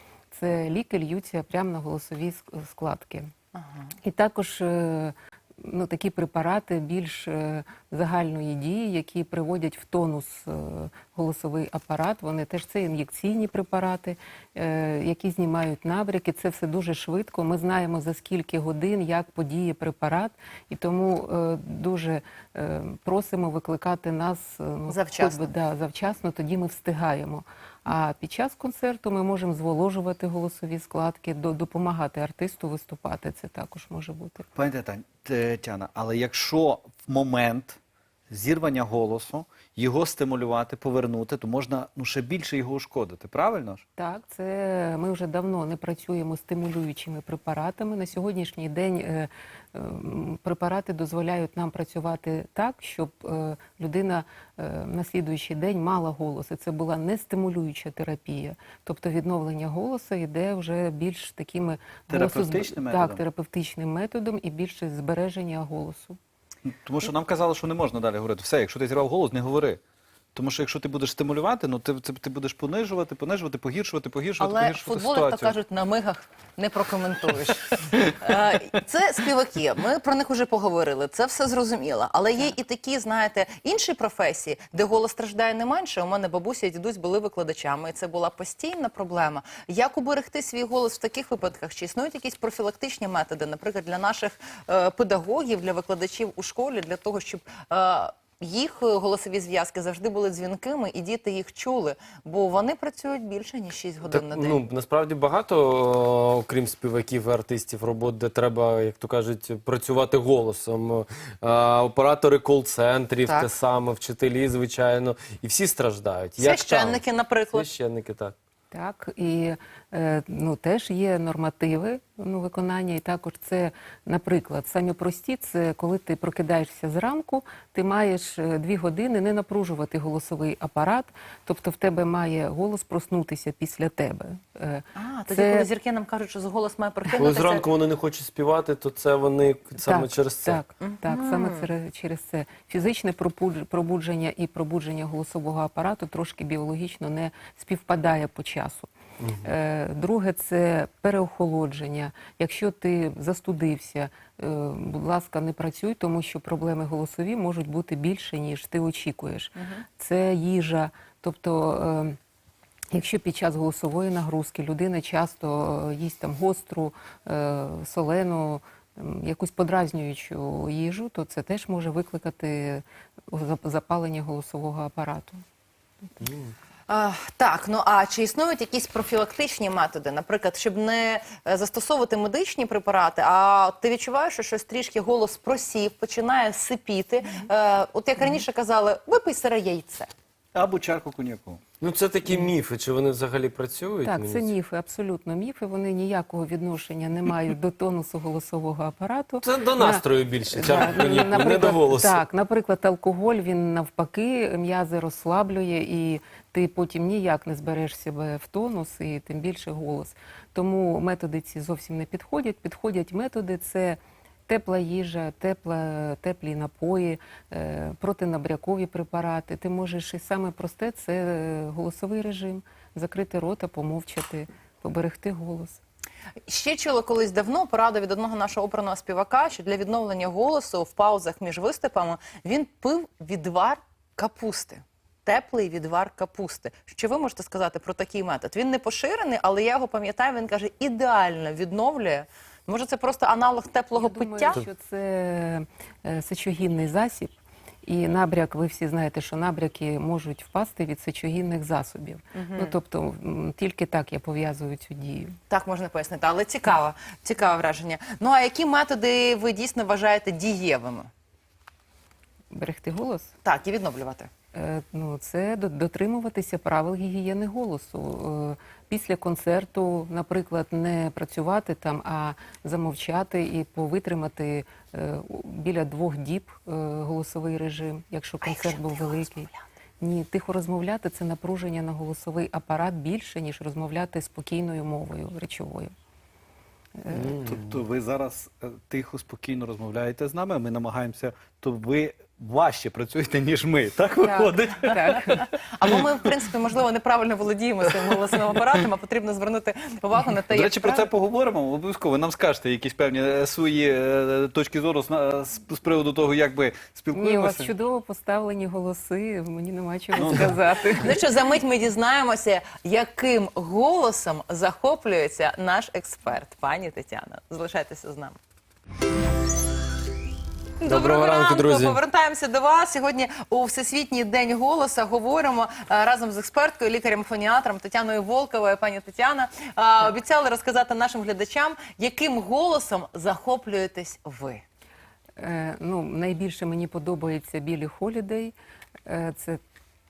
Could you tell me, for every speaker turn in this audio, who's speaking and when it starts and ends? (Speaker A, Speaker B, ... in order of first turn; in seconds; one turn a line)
Speaker A: 0.3-3.3
Speaker B: 3.5-3.9
Speaker A: 4.0-34.5
Speaker B: 24.9-25.5
Speaker C: 34.5-37.8
Speaker C: 38.3-43.8
Speaker A: 44.0-66.2
Speaker C: 62.1-63.2
Speaker C: 66.7-69.8
Speaker C: 70.3-75.5
Speaker B: 74.4-104.6
Speaker D: 104.0-118.3
Speaker B: 113.2-113.5
Speaker B: 116.4-117.7
Speaker A: 118.7-135.7
Speaker B: 134.9-137.7
Speaker D: 137.1-140.6
Speaker A: 139.8-148.9
Speaker B: 140.8-141.7
Speaker D: 149.2-149.5
Speaker A: 149.4-162.2
Speaker B: 159.6-159.8
Speaker A: 162.9-175.4
Speaker B: 176.9-190.1
Speaker C: 190.5-191.6
Speaker D: 191.8-194.5
Speaker A: 194.0-225.8
Speaker D: 199.4-202.2
Speaker B: 226.5-244.6
Speaker A: 243.9-255.3
Speaker B: 252.3-252.7
Speaker B: 255.5-261.1
Speaker A: 262.5-263.3
Speaker B: 263.4-264.3
Speaker A: 264.5-279.5
Speaker B: 278.4-279.6
Speaker A: 280.0-285.9
Speaker A: 287.0-287.4
Speaker D: 287.1-287.6
Speaker C: 287.4-295.4
Speaker A: 294.2-295.4
Speaker B: 295.7-301.1
Speaker C: 300.5-307.7
Speaker A: 307.1-311.2
Speaker C: 310.2-310.6
Speaker B: 310.9-318.4
Speaker B: 320.8-334.6
Speaker D: 320.8-322.0
Speaker A: 335.4-338.5
Speaker A: 339.1-339.6